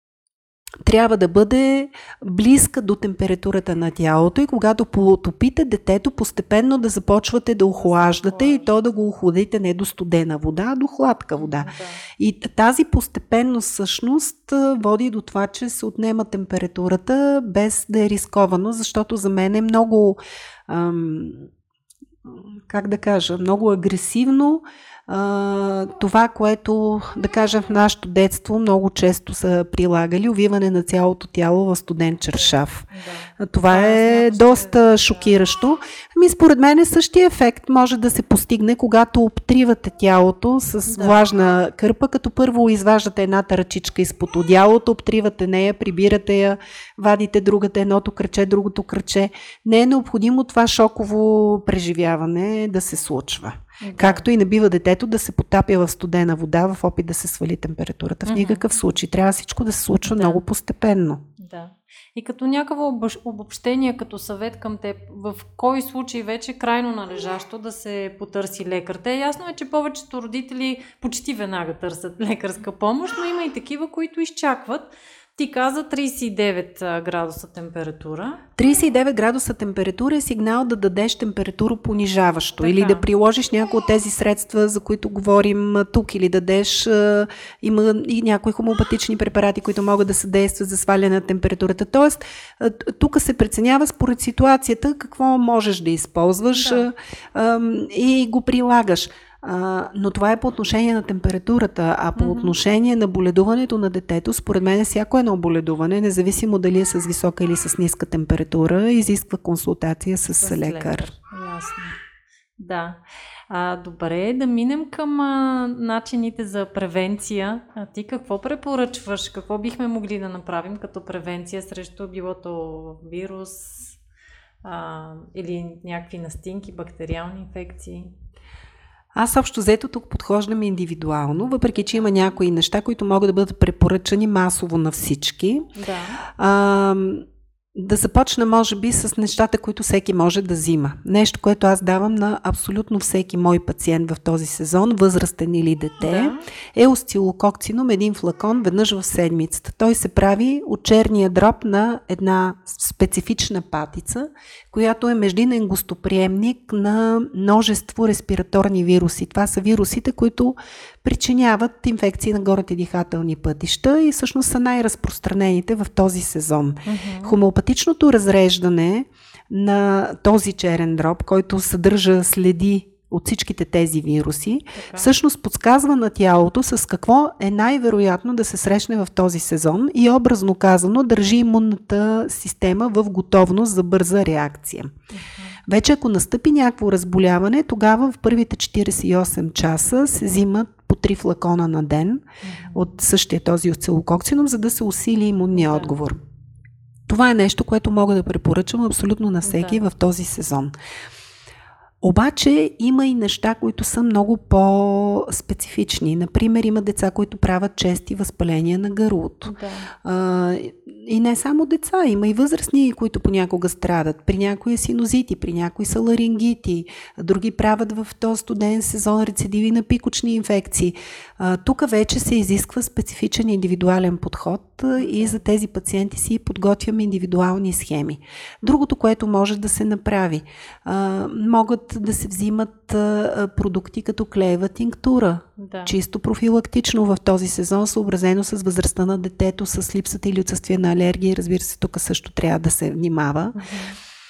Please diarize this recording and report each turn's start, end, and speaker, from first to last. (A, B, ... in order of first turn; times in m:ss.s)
0:00.8-0:21.5 A
0:07.8-0:08.7 B
0:11.4-0:12.0 B
0:22.2-0:32.9 A
0:32.4-0:35.4 B
0:33.4-1:01.2 A
0:40.9-0:41.2 B
0:53.8-0:54.2 B
0:58.2-0:58.7 B
1:00.0-1:00.4 B
1:01.4-1:18.4 B
1:18.6-1:51.1 A
1:22.6-1:23.0 B
1:36.5-1:36.8 B
1:42.2-1:42.5 B
1:50.4-1:52.0 B
1:52.6-1:53.0 B
1:53.5-2:04.0 B
2:04.6-2:08.1 B
2:09.1-2:15.7 A
2:15.8-2:16.2 B
2:16.4-3:04.9 A
2:26.0-2:26.4 B
2:46.8-2:47.4 B
2:54.7-2:55.1 B
3:05.1-3:05.6 B
3:05.6-3:16.2 A
3:12.4-3:12.9 B
3:15.5-3:15.9 B
3:17.1-3:20.7 A
3:19.4-3:19.8 B
3:22.0-4:03.6 A
3:29.4-3:29.9 B
3:45.0-3:45.4 B
3:55.6-3:56.0 B
4:03.5-4:04.0 B